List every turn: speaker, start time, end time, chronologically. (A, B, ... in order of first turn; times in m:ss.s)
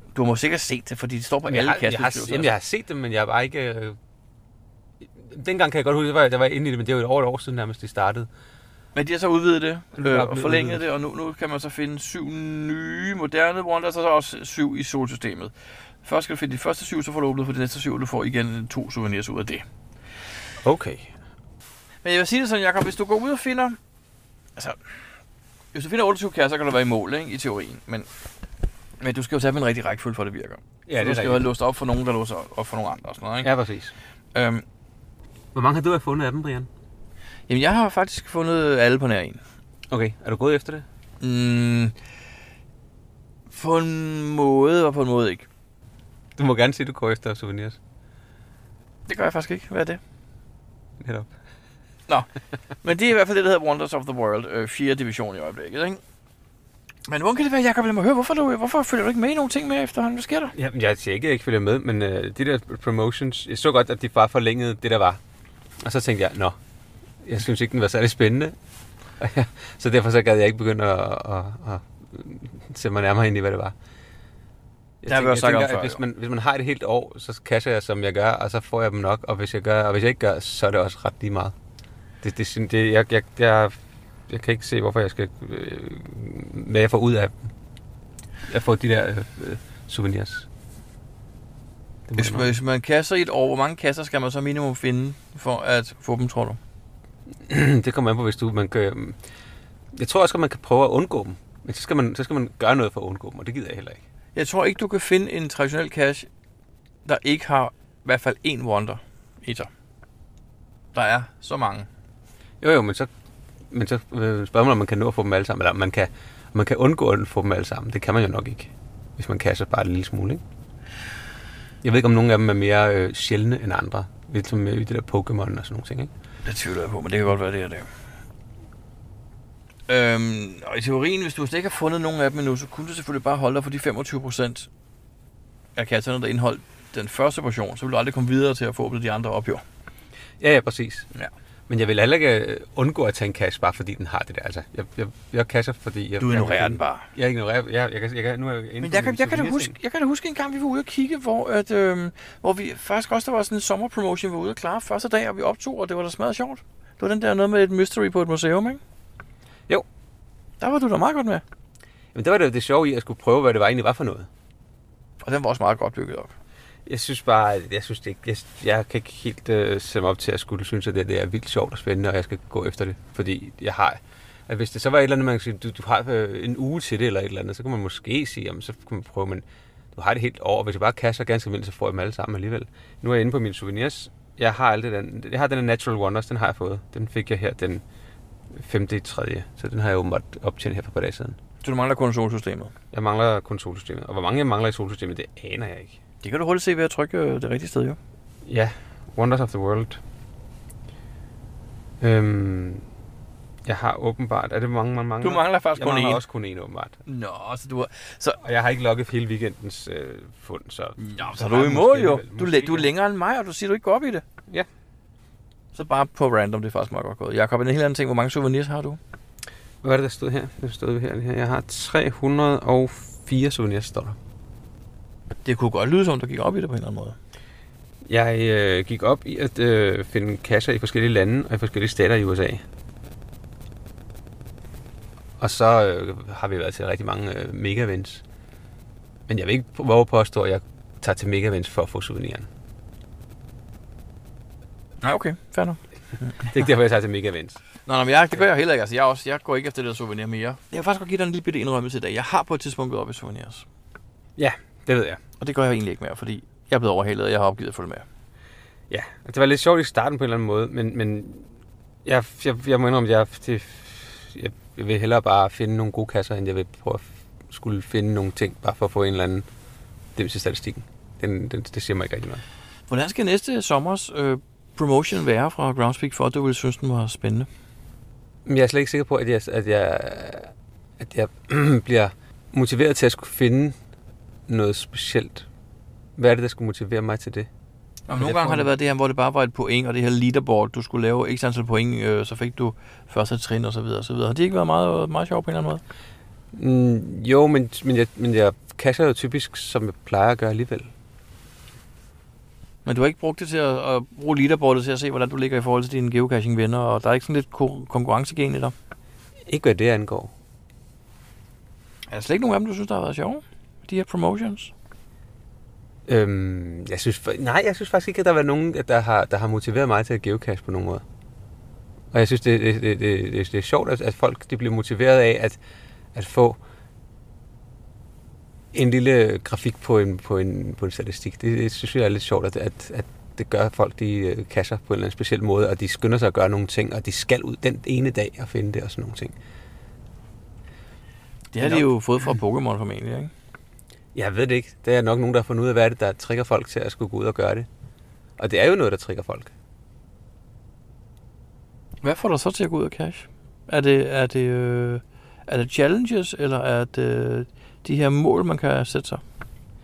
0:00.1-0:02.5 A
0:01.5-0:04.0 B
0:05.2-0:08.3 B
0:08.9-0:19.6 A
0:09.9-0:10.8 B
0:20.6-0:21.2 B
0:22.0-0:23.8 A
0:24.6-0:25.1 A
0:25.7-0:28.1 A
0:29.0-0:33.5 A
0:30.8-0:31.5 B
0:33.4-0:33.9 B
0:34.3-0:34.6 A
0:35.5-0:36.7 B
0:37.5-0:39.4 A
0:39.9-0:40.9 B
0:41.2-0:42.0 A
0:43.5-0:45.5 A
0:46.4-0:47.8 B
0:49.1-0:50.0 A
0:51.0-0:51.3 B
0:52.8-0:56.0 A
0:57.0-1:00.5 A
1:00.5-1:05.2 B
1:05.8-1:06.6 B
1:07.2-1:08.6 B
1:09.2-1:13.8 B
1:15.0-1:21.5 B
1:15.0-1:16.0 A
1:22.2-1:27.5 B
1:28.5-1:30.5 B
1:32.1-1:32.5 B
1:32.2-1:36.6 A
1:37.5-1:39.2 B
1:39.9-1:44.0 B
1:44.3-1:46.3 A
1:47.0-1:49.7 A
1:50.9-1:51.9 A
1:52.6-1:53.1 B
1:53.7-2:00.4 B
2:01.8-2:06.1 B
2:06.4-2:07.9 A
2:09.9-2:14.7 A
2:15.8-2:19.6 A
2:20.4-2:21.1 B
2:21.7-2:29.8 B
2:26.2-2:27.1 A
2:28.8-2:38.8 A
2:40.6-2:41.4 A
2:42.1-2:44.3 B
2:45.2-2:46.3 A
2:46.8-3:07.8 B
3:08.5-3:11.4 B
3:11.6-3:12.7 A
3:12.9-3:16.0 B
3:16.2-3:18.0 A
3:18.4-3:20.0 B
3:22.0-3:22.8 B
3:23.6-3:27.0 B
3:25.2-3:26.2 A
3:27.0-3:28.4 A
3:28.4-3:32.9 B
3:31.0-3:34.2 A
3:35.7-3:39.0 A
3:39.8-3:44.2 B
3:45.4-3:47.2 A
3:48.0-3:52.6 B
3:55.4-3:58.2 B
3:59.3-4:02.5 B
4:05.0-4:06.4 A
4:06.4-4:07.6 B
4:07.8-4:13.6 A
4:14.4-4:15.2 B
4:15.4-4:18.0 A
4:18.9-4:21.5 B
4:22.0-4:29.5 B
4:30.1-4:32.4 B
4:32.9-4:37.5 A
4:38.4-4:43.8 B
4:44.5-4:45.5 B
4:46.2-4:47.5 B
4:48.1-4:55.8 A
4:48.1-4:48.7 B
4:56.5-5:00.9 B
5:02.8-5:08.7 A
5:09.5-5:10.3 B
5:12.1-5:14.7 A
5:16.1-5:21.0 B
5:22.1-5:25.6 B
5:26.1-5:26.6 B
5:28.7-5:39.3 B
5:41.5-5:43.3 A
5:41.6-5:41.9 B
5:44.1-5:47.7 B
5:48.4-5:49.5 B
5:52.0-5:59.2 A